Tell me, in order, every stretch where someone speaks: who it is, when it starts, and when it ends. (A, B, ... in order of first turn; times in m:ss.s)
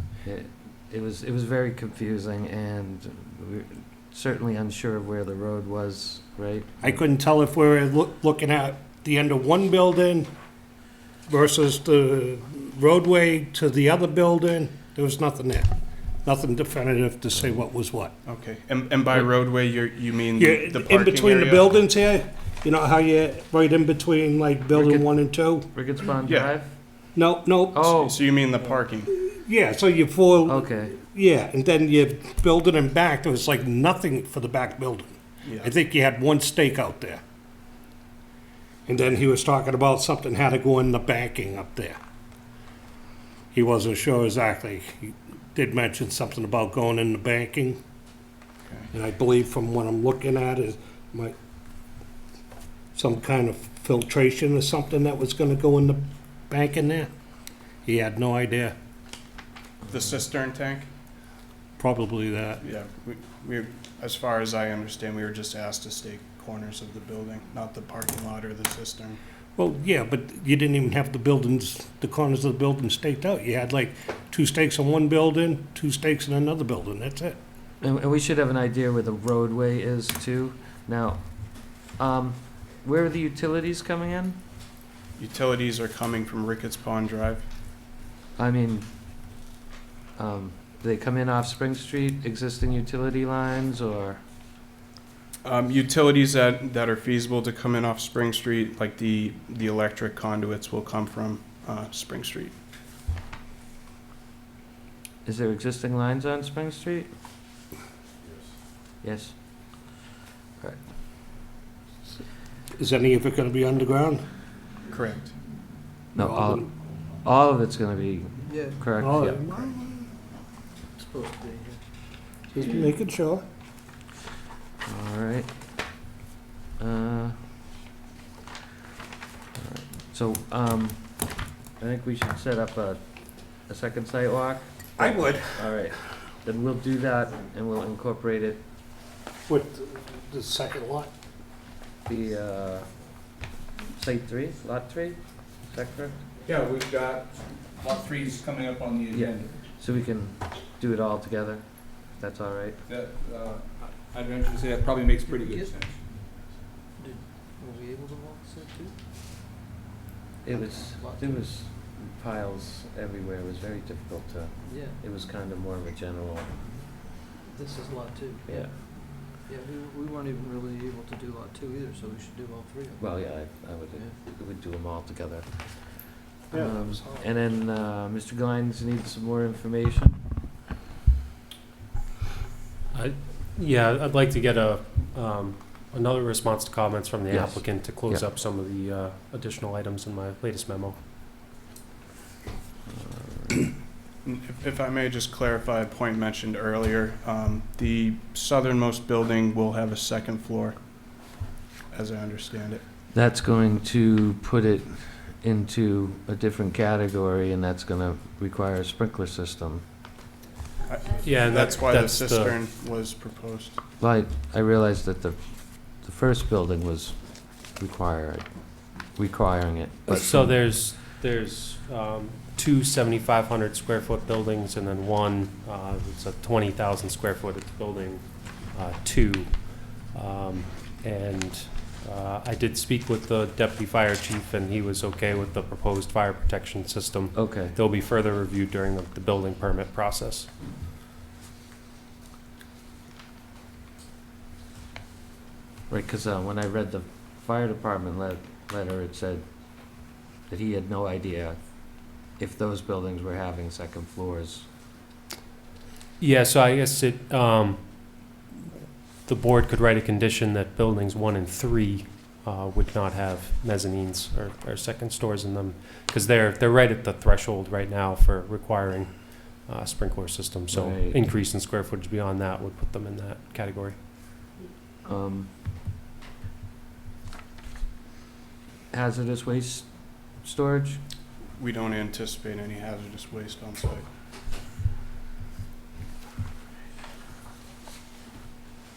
0:00.2-0:07.0 A
0:06.8-0:10.3 B
0:11.3-0:15.7 B
0:16.2-0:18.1 B
0:18.2-0:21.7 C
0:20.4-0:25.7 B
0:24.7-0:26.7 A
0:26.3-0:26.6 C
0:27.1-0:27.9 B
0:27.7-0:28.2 A
0:27.9-0:29.1 C
0:29.1-0:37.2 B
0:30.4-0:30.9 A
0:35.4-0:35.7 C
0:38.9-0:42.0 B
0:43.5-0:47.8 B
0:48.9-0:51.3 B
0:52.9-0:57.1 B
0:57.8-0:58.7 B
0:59.9-1:00.9 C
1:01.8-1:02.6 B
1:02.6-1:09.2 C
1:09.6-1:17.4 B
1:17.8-1:24.4 A
1:25.2-1:27.4 C
1:28.4-1:28.9 A
1:30.2-1:34.2 A
1:35.4-1:42.5 C
1:45.2-1:47.1 A
1:49.0-1:49.3 A
1:52.8-1:54.2 B
1:54.9-1:55.3 C
1:56.1-1:59.5 A
1:56.2-1:56.6 B
1:58.4-1:58.8 D
1:59.0-2:00.1 B
2:00.9-2:01.8 D
2:02.5-2:03.4 B
2:04.8-2:05.5 A
2:06.8-2:07.4 A
2:09.5-2:18.6 A
2:15.0-2:15.9 B
2:19.5-2:21.1 B
2:22.0-2:23.4 A
2:23.9-2:26.2 A
2:26.4-2:29.6 E
2:29.1-2:32.8 A
2:32.9-2:36.0 E
2:35.3-2:35.8 D
2:37.0-2:39.0 D
2:40.4-2:46.5 A
2:40.4-2:41.5 D
2:44.6-2:45.0 D
2:47.5-2:48.6 D
2:48.4-2:48.7 A
2:49.4-2:53.4 D
2:53.0-3:00.2 A
2:56.5-2:57.0 B
2:56.6-2:57.4 D
3:02.9-3:11.0 F
3:07.3-3:08.2 A
3:12.9-3:13.7 A
3:14.2-3:22.8 C
3:23.1-3:29.8 A
3:30.9-3:33.8 C
3:31.2-3:32.6 F
3:34.0-3:40.5 A
3:40.1-4:00.5 F
3:57.3-3:57.8 A
4:05.9-4:14.7 A
4:16.2-4:18.4 F
4:19.2-4:34.0 F
4:30.7-4:31.2 A
4:35.0-4:35.5 A
4:38.9-4:41.0 A
4:41.6-4:44.0 C